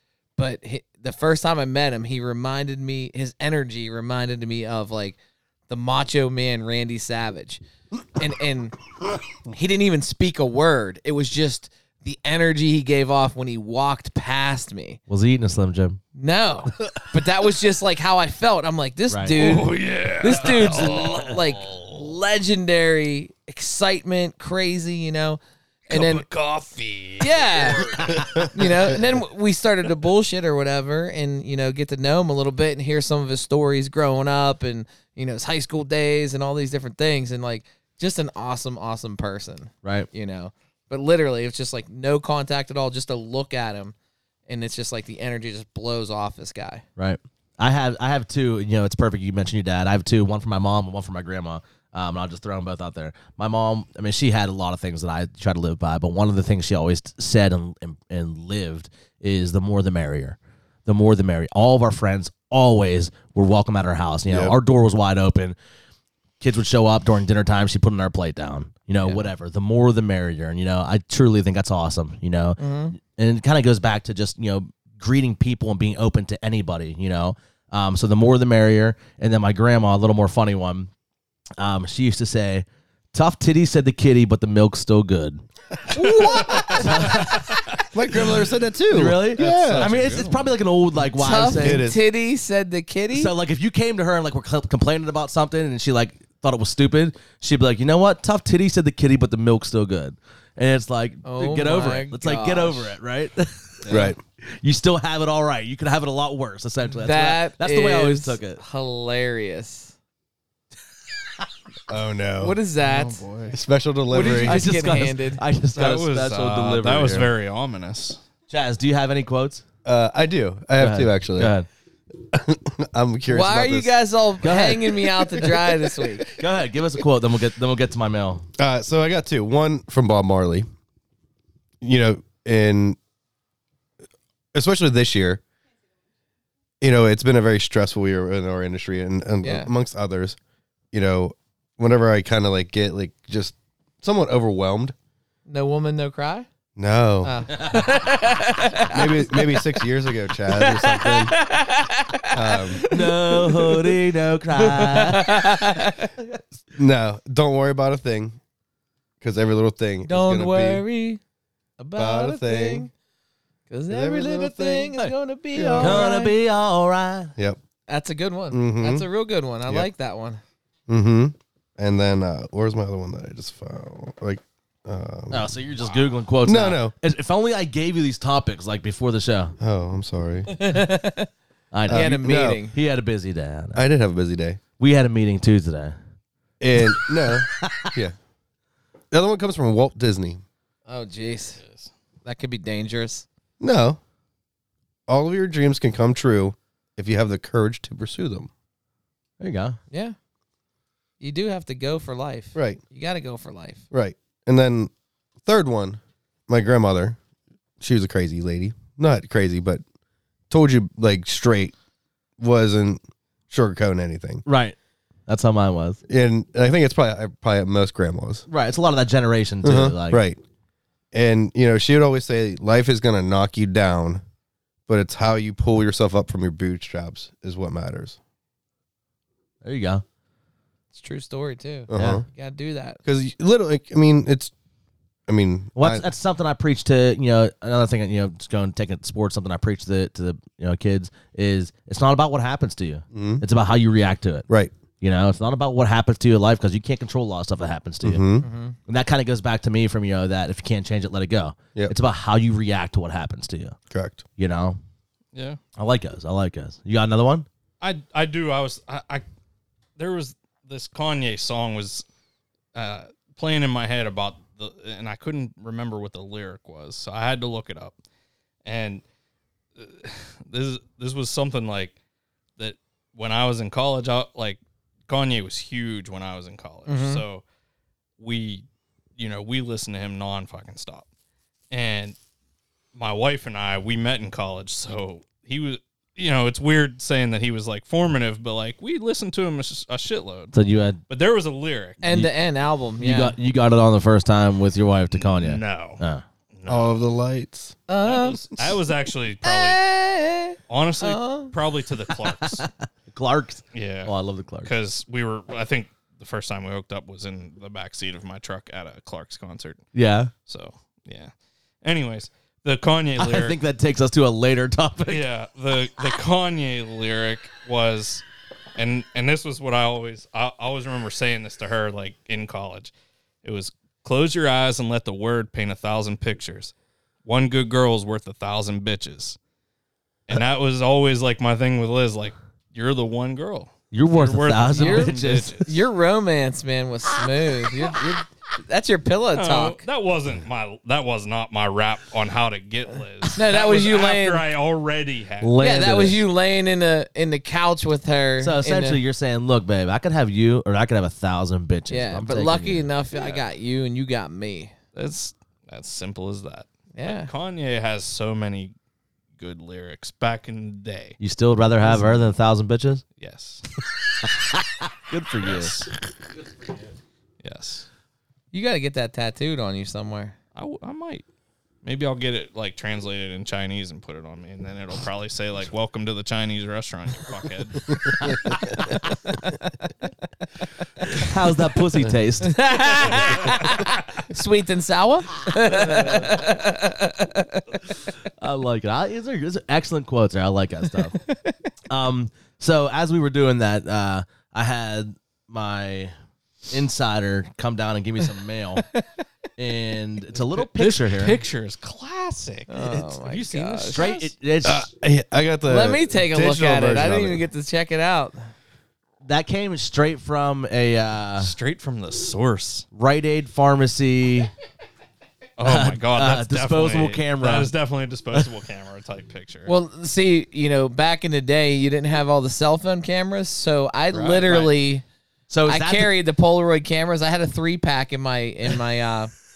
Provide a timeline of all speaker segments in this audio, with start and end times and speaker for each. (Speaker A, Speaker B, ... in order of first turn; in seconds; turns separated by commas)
Speaker A: 0.4-5.2, Speaker A: 5.7-7.6, Speaker A: 8.2-8.8, Speaker A: 9.5-15.0, Speaker B: 15.1-16.0, Speaker A: 16.1-26.2, Speaker B: 19.1-19.4, Speaker C: 19.3-22.1, Speaker C: 25.9-28.6, Speaker A: 27.2-43.9, Speaker B: 39.8-40.1, Speaker A: 44.5-46.8, Speaker B: 47.0-65.5, Speaker D: 64.3-64.5, Speaker B: 66.4-80.9, Speaker A: 72.6-72.9, Speaker B: 81.6-85.4, Speaker D: 85.9-87.1, Speaker C: 86.0-88.1, Speaker A: 86.0-86.8, Speaker B: 86.1-87.6, Speaker D: 87.9-90.0, Speaker B: 88.9-91.8, Speaker C: 89.4-90.6, Speaker A: 91.1-93.3, Speaker D: 91.6-92.0, Speaker B: 93.1-108.6, Speaker A: 101.2-102.9, Speaker C: 103.8-104.1, Speaker D: 103.9-104.2, Speaker A: 107.0-109.9, Speaker D: 111.9-112.6, Speaker A: 112.4-113.2, Speaker C: 112.8-113.5, Speaker D: 113.5-114.6, Speaker A: 114.1-115.4, Speaker B: 114.1-117.3, Speaker C: 115.7-118.2, Speaker B: 118.5-119.6, Speaker D: 119.8-121.5, Speaker B: 120.8-121.7, Speaker D: 122.2-123.9, Speaker A: 123.3-126.3, Speaker B: 124.4-125.6, Speaker B: 126.3-128.4, Speaker D: 128.6-130.7, Speaker D: 131.8-133.0, Speaker D: 134.5-135.4, Speaker D: 136.8-140.4, Speaker A: 139.4-139.7, Speaker D: 140.9-144.9, Speaker A: 145.4-146.5, Speaker D: 146.8-147.5, Speaker A: 147.2-149.8, Speaker B: 147.5-148.0, Speaker D: 148.9-151.3, Speaker A: 150.5-154.0, Speaker D: 152.3-152.8, Speaker B: 152.9-155.7, Speaker A: 154.6-156.1, Speaker D: 156.7-158.4, Speaker D: 159.2-160.8, Speaker A: 160.1-161.2, Speaker A: 161.8-162.9, Speaker D: 162.0-162.9, Speaker A: 163.7-166.3, Speaker D: 163.9-164.9, Speaker D: 165.5-166.2, Speaker B: 165.8-167.3, Speaker A: 167.9-170.4, Speaker D: 168.5-169.1, Speaker D: 170.9-175.5, Speaker B: 175.3-179.5, Speaker D: 176.4-176.9, Speaker D: 179.6-180.6, Speaker A: 180.5-181.3, Speaker B: 181.7-183.8, Speaker D: 181.9-182.6, Speaker A: 181.9-182.7, Speaker D: 183.7-184.6, Speaker B: 184.8-185.9, Speaker D: 186.6-188.1, Speaker B: 186.8-187.9, Speaker D: 189.1-190.4, Speaker A: 190.9-191.6, Speaker C: 191.6-191.9, Speaker A: 192.2-193.2, Speaker D: 193.6-194.0, Speaker D: 195.1-198.5, Speaker B: 199.4-199.8, Speaker A: 201.2-203.8, Speaker D: 202.5-202.8, Speaker D: 203.9-204.9, Speaker D: 205.4-207.2, Speaker D: 207.8-209.8, Speaker D: 210.5-211.7, Speaker D: 212.4-214.4, Speaker B: 214.4-214.8, Speaker B: 215.3-216.0, Speaker D: 216.1-218.5, Speaker B: 218.5-220.2, Speaker D: 219.6-220.4, Speaker D: 221.1-224.2, Speaker D: 224.9-228.2, Speaker B: 229.6-230.0, Speaker A: 230.9-233.0, Speaker D: 231.9-232.2, Speaker B: 231.9-232.2, Speaker D: 233.0-234.5, Speaker D: 235.3-236.0, Speaker B: 235.8-244.5, Speaker D: 243.1-243.4, Speaker B: 245.0-248.2, Speaker D: 248.0-248.4, Speaker A: 248.4-248.8, Speaker B: 248.9-253.8, Speaker D: 253.9-254.2, Speaker B: 254.4-254.8, Speaker C: 255.3-255.6, Speaker B: 255.8-257.4, Speaker C: 257.8-259.2, Speaker C: 260.0-262.0, Speaker C: 262.7-268.0, Speaker C: 268.6-269.0, Speaker C: 269.8-271.9, Speaker C: 272.6-277.4, Speaker A: 276.9-277.2, Speaker C: 278.2-278.6, Speaker C: 279.2-281.1, Speaker C: 281.7-282.1, Speaker C: 282.9-290.5, Speaker B: 290.5-291.0, Speaker C: 291.1-292.0, Speaker A: 292.0-293.4, Speaker B: 292.0-292.3, Speaker B: 293.0-296.2, Speaker C: 295.1-296.0, Speaker C: 296.6-297.1, Speaker D: 296.7-297.8, Speaker A: 297.9-298.4, Speaker C: 298.0-299.8, Speaker A: 299.4-301.5, Speaker C: 300.7-302.6, Speaker B: 302.4-304.7, Speaker C: 303.7-304.1, Speaker C: 304.6-309.8, Speaker B: 309.9-310.3, Speaker C: 310.5-311.3, Speaker C: 311.8-313.6, Speaker B: 313.2-315.2, Speaker C: 315.1-318.2, Speaker C: 318.8-322.9, Speaker C: 323.4-326.7, Speaker C: 327.2-329.4, Speaker C: 330.3-335.8, Speaker B: 333.9-335.6, Speaker A: 334.7-339.8, Speaker C: 339.3-345.6, Speaker A: 343.3-344.4, Speaker B: 345.4-346.2, Speaker A: 345.6-349.0, Speaker B: 348.4-352.9, Speaker A: 351.9-354.7, Speaker C: 353.1-353.4, Speaker C: 354.9-358.7, Speaker A: 356.9-357.3, Speaker C: 359.4-361.2, Speaker B: 361.2-363.0, Speaker A: 361.8-362.3, Speaker C: 363.2-363.7, Speaker B: 364.2-365.7, Speaker C: 365.4-365.9, Speaker C: 367.4-367.9, Speaker A: 368.5-370.4, Speaker C: 370.6-371.2, Speaker C: 371.8-377.9, Speaker B: 381.1-383.2, Speaker A: 382.4-387.8, Speaker C: 383.1-383.5, Speaker B: 385.6-386.5, Speaker B: 388.4-391.2, Speaker A: 391.1-391.5, Speaker B: 391.9-396.1, Speaker B: 396.7-398.8, Speaker B: 399.6-401.4, Speaker C: 400.4-404.1, Speaker A: 402.7-404.3, Speaker B: 402.8-403.1, Speaker B: 403.8-404.9, Speaker D: 404.6-407.4, Speaker A: 405.6-408.4, Speaker B: 409.2-411.5, Speaker C: 411.4-412.9, Speaker B: 412.9-414.5, Speaker C: 415.6-419.7, Speaker B: 415.6-417.7, Speaker A: 419.7-425.0, Speaker C: 424.1-424.7, Speaker B: 425.5-426.1, Speaker A: 425.6-429.3